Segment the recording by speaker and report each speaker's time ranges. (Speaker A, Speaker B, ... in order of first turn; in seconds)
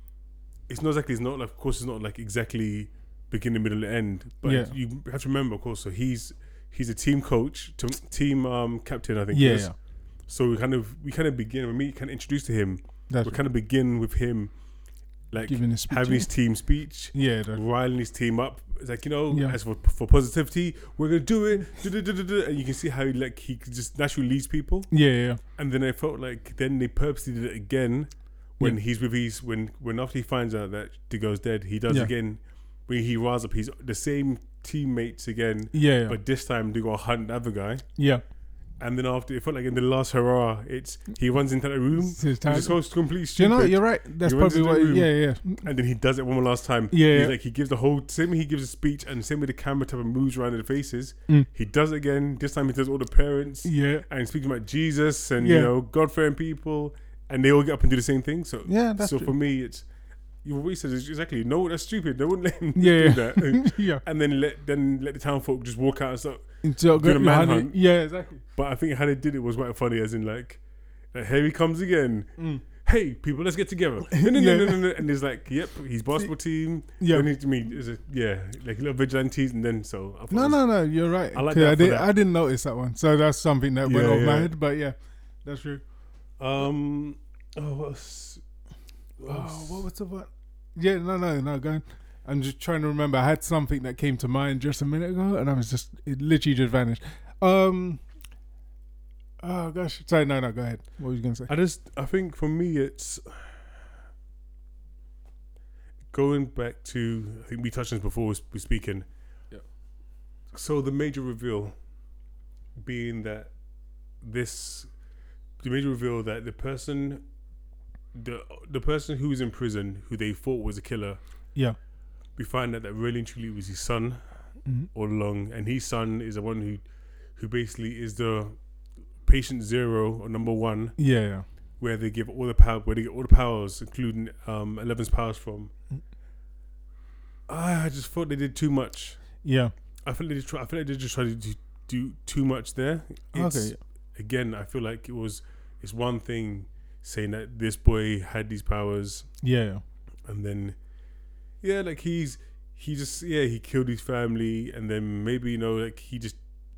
Speaker A: 0.7-9.7, 10.3-14.5, 15.3-24.9, 25.6-37.9, 38.8-45.1, 45.6-59.9, 60.4-67.8, 68.5-80.6, 81.3-82.1, 83.8-84.5, 86.4-88.4, 89.2-89.8, 101.5-103.6, 106.1-109.1, 110.5-111.8, 112.8-113.5, 114.2-114.9, 115.6-117.2, 118.2-121.2, 122.4-124.2, 124.9-126.8, 127.4-128.6, 129.2-131.0, 131.8-135.7, 137.5-139.2, 140.0-149.3, 150.3-150.8, 151.6-156.4
Speaker B: 4.4-4.7, 9.3-9.7, 13.1-13.4, 15.5-16.3, 17.1-17.6, 19.3-19.6, 24.9-25.4, 35.7-36.2, 38.0-38.2, 42.0-42.8, 43.4-45.6, 46.9-47.3, 53.6-54.1, 55.4-55.7, 58.7-59.3, 62.8-64.0, 66.6-68.4, 72.4-72.6, 74.1-74.8, 77.0-77.3, 80.3-85.8, 89.3-98.0, 99.4-101.5, 131.0-131.5, 139.4-139.7, 143.3-143.8, 149.4-149.8